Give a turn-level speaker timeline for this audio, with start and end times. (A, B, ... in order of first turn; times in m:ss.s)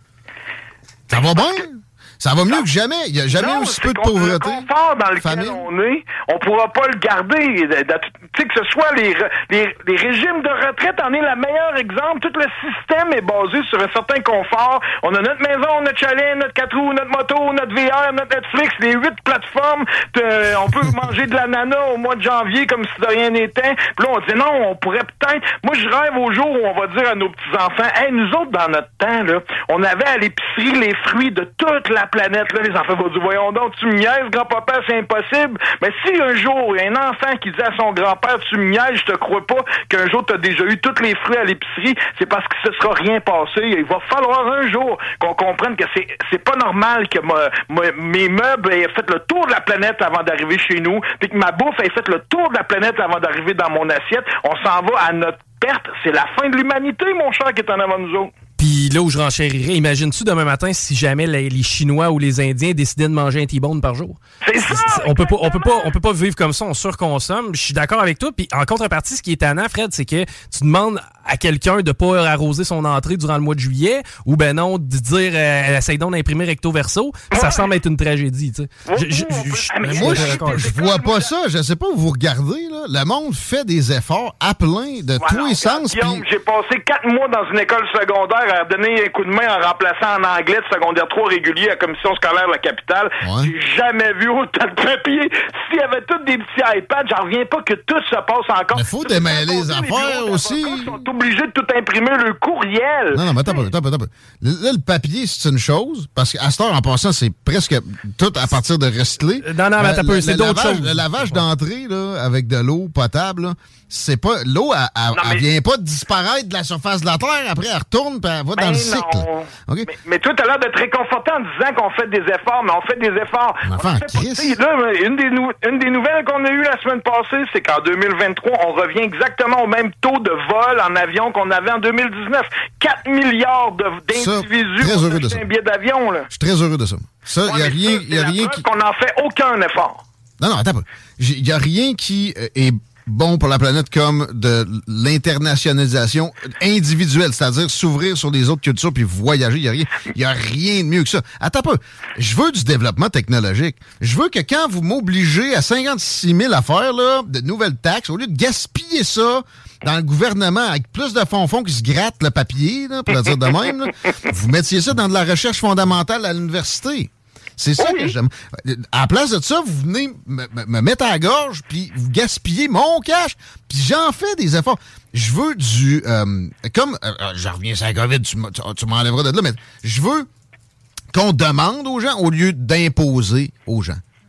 0:01.1-0:04.7 A
0:01.2-0:01.6 B
0:03.3-0:58.3 B
0:05.2-0:05.6 A
0:58.6-1:20.7 C
1:04.4-1:05.9 B
1:17.3-1:17.7 B
1:18.9-1:21.3 B
1:19.9-1:26.2 A
1:25.2-1:43.7 B
1:33.2-1:33.5 A
1:38.7-1:40.9 A
1:43.1-1:59.9 A
1:49.4-1:51.3 C
1:55.2-1:55.4 B
1:58.6-2:16.3 B
2:03.7-2:04.6 A
2:14.1-2:15.4 A
2:16.3-2:18.6 A
2:17.4-2:20.0 B
2:20.4-3:00.3 A
2:47.8-2:48.2 B
3:01.1-3:04.0 A